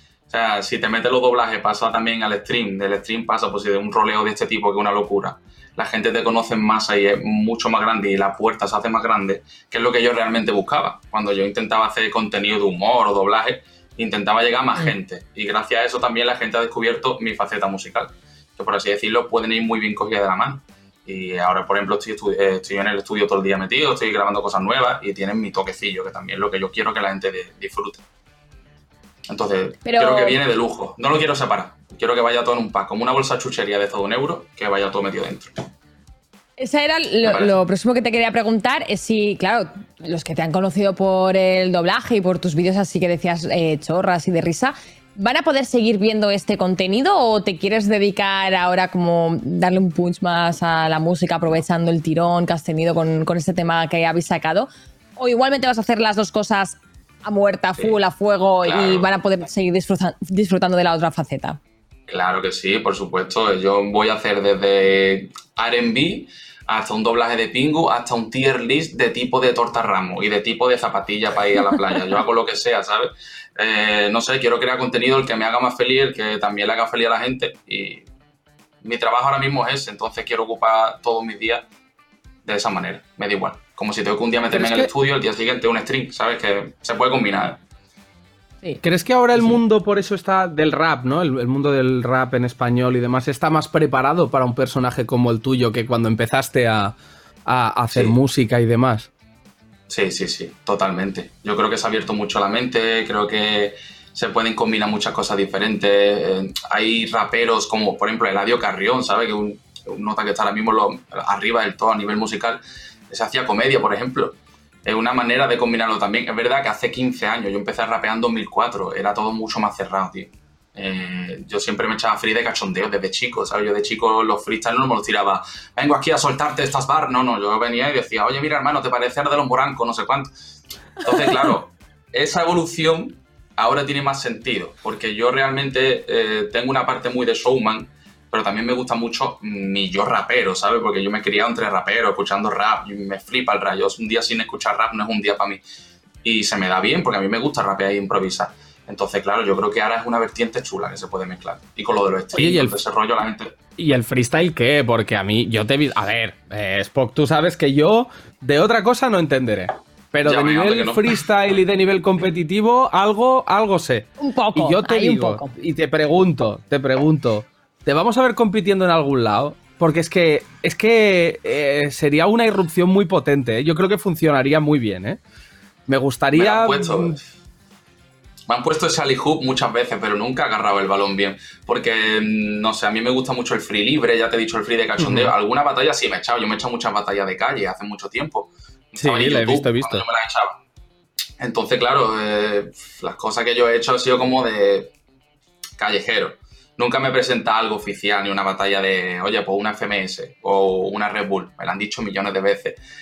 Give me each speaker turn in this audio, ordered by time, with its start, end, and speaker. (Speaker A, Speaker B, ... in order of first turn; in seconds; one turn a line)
Speaker A: 0.3-28.0
Speaker A: 29.3-35.7
Speaker B: 29.8-30.4
Speaker B: 36.6-61.6
Speaker A: 37.2-37.6
Speaker A: 57.8-58.0
Speaker A: 58.6-59.1
Speaker A: 62.1-78.1
Speaker A: 78.8-81.7
Speaker A: 82.4-87.6
Speaker C: 84.5-84.9
Speaker C: 88.8-96.9
Speaker C: 97.5-99.1
Speaker A: 99.9-130.3
Speaker A: 131.0-145.6
Speaker A: 146.2-153.5
Speaker C: 152.3-152.8
Speaker C: 153.8-175.2
Speaker A: 160.2-161.2
Speaker B: 164.2-165.5
Speaker C: 175.9-177.2
Speaker A: 176.3-177.2
Speaker A: 178.5-190.6
Speaker C: 185.0-185.3
Speaker C: 188.9-190.1
Speaker A: 191.4-194.9
Speaker A: 195.8-202.8